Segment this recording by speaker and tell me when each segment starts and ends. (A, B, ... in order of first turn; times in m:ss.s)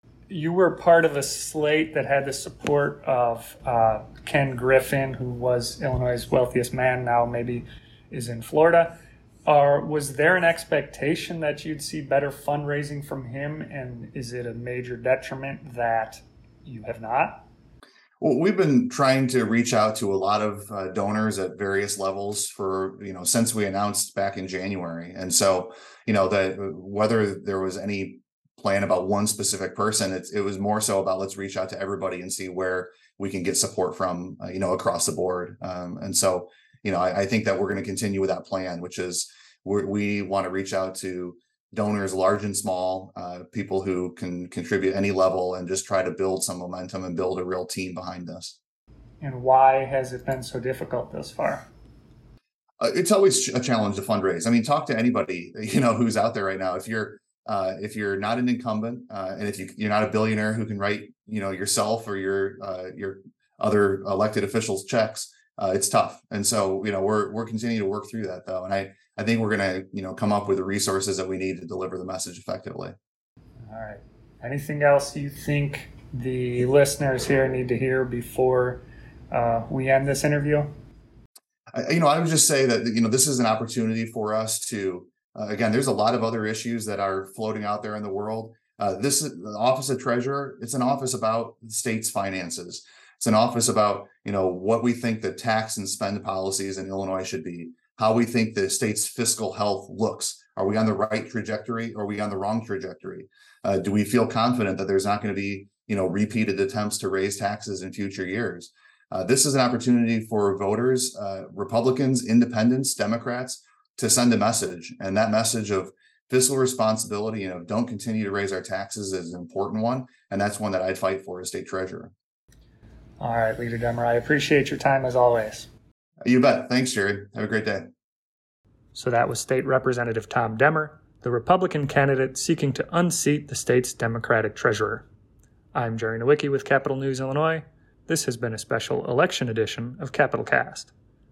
0:00.3-0:17.5 A
0:18.2-0:48.6 B
0:49.2-0:51.7 A
0:52.8-1:13.0 B
1:13.7-1:20.7 A
1:21.7-2:02.1 B
2:03.2-2:05.7 A
2:06.2-2:07.9 B
2:08.9-2:15.1 A
2:15.7-2:20.9 A